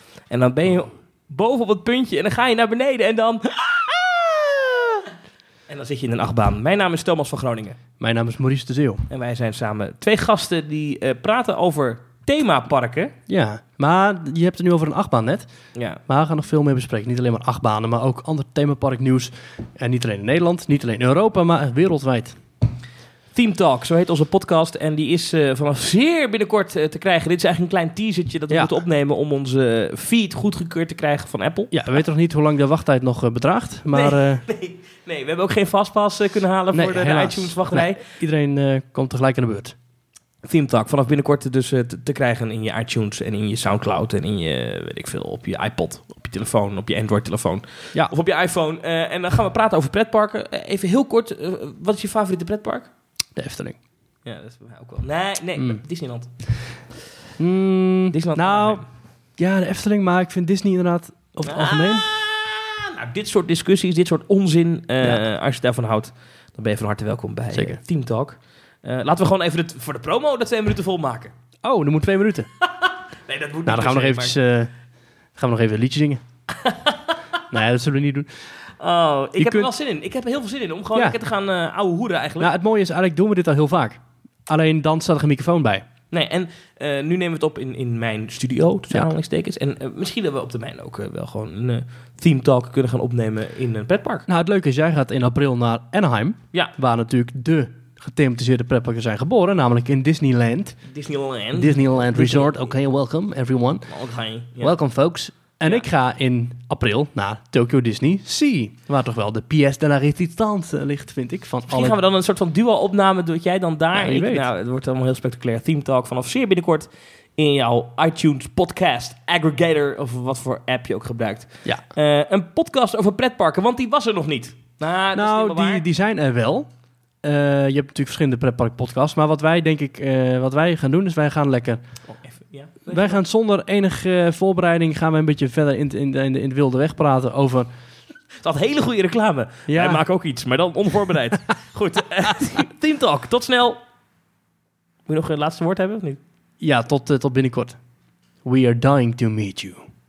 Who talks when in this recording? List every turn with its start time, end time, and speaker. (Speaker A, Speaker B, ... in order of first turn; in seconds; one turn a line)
Speaker A: 0.3-5.1
Speaker A: 5.7-7.8
Speaker B: 8.0-9.1
Speaker A: 9.1-13.1
Speaker B: 13.3-15.5
Speaker A: 15.8-16.0
Speaker B: 16.1-22.4
Speaker A: 23.3-31.7
Speaker B: 31.7-34.4
Speaker A: 33.9-38.0
Speaker B: 36.7-39.8
Speaker A: 40.5-52.9
Speaker B: 53.4-53.8
Speaker A: 54.2-56.3
Speaker B: 57.4-58.8
Speaker A: 58.1-58.8
Speaker B: 59.4-62.1
Speaker A: 61.5-71.3
Speaker B: 67.5-67.8
Speaker B: 71.6-72.5
Speaker A: 72.8-74.3
Speaker B: 73.7-74.7
Speaker B: 75.4-76.2
Speaker A: 76.5-77.4
Speaker B: 77.5-78.3
Speaker A: 78.8-82.5
Speaker B: 79.4-79.7
Speaker B: 82.4-85.8
Speaker A: 86.1-94.3
Speaker B: 94.3-100.8
Speaker A: 100.8-102.5
Speaker B: 101.5-103.9
Speaker A: 103.9-104.7
Speaker B: 104.6-112.0
Speaker A: 111.7-125.8
Speaker B: 113.9-114.5
Speaker B: 125.1-126.7
Speaker B: 127.2-131.8
Speaker A: 132.1-133.2
Speaker B: 132.9-137.7
Speaker A: 138.4-143.8
Speaker B: 139.7-140.0
Speaker A: 145.1-146.2
Speaker B: 146.6-147.8
Speaker B: 148.4-149.8